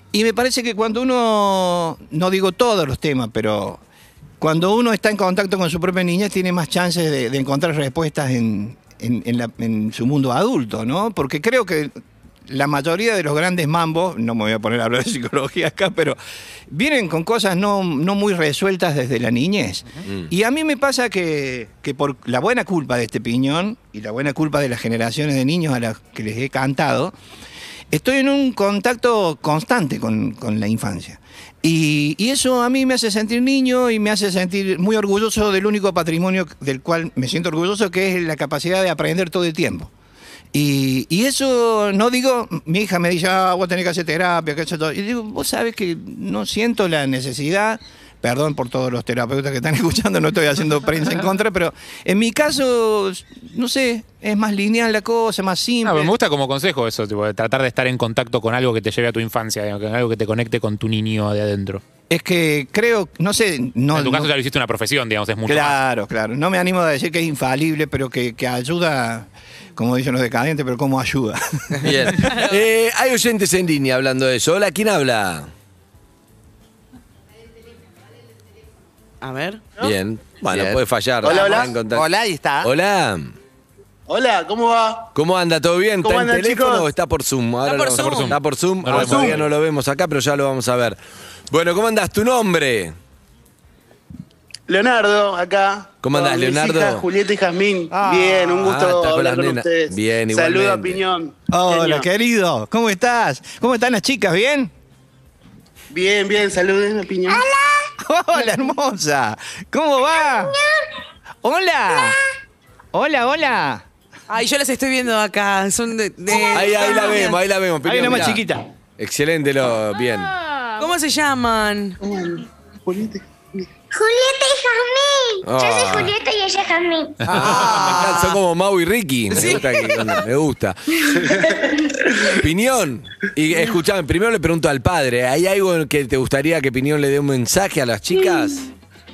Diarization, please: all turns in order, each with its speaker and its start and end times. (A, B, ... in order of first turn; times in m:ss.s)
0:00.1-0:03.8 A
0:04.4-0:11.9 A
0:12.5-0:16.2 A
0:16.7-0:27.1 A
0:27.9-0:39.9 A
0:40.5-0:56.1 A
0:55.8-1:01.8 B
1:02.1-1:04.3 A
1:03.9-1:05.8 B
1:05.5-1:12.2 A
1:11.8-1:15.5 C
1:19.2-1:19.6 D
1:19.8-1:22.1 C
1:20.5-1:22.7 E
1:21.3-1:21.7 F
1:22.6-1:23.4 C
1:24.1-1:25.1 F
1:25.2-1:31.0 C
1:26.0-1:26.9 F
1:27.6-1:28.4 D
1:27.9-1:29.5 B
1:29.0-1:29.3 F
1:31.5-1:33.0 C
1:34.7-1:42.1 F
1:36.0-1:37.1 C
1:37.9-1:38.6 A
1:38.6-1:41.0 C
1:41.5-1:44.7 A
1:45.9-1:47.4 F
1:47.3-1:47.9 G
1:48.0-1:50.6 A
1:50.1-1:50.8 G
1:51.4-1:52.2 A
1:51.9-1:52.2 G
1:52.9-1:53.8 A
1:54.3-1:57.4 D
1:56.3-1:57.4 G
1:56.5-1:58.4 C
1:57.8-1:58.7 A
1:59.0-2:00.3 C
2:00.8-2:02.0 D
2:02.0-2:03.3 F
2:03.9-2:07.4 G
2:05.4-2:06.1 C
2:07.3-2:10.8 C
2:07.3-2:07.6 B
2:07.3-2:08.4 D
2:09.4-2:09.6 D
2:11.1-2:12.4 F
2:11.2-2:11.9 G
2:12.4-2:18.7 C
2:18.1-2:18.5 G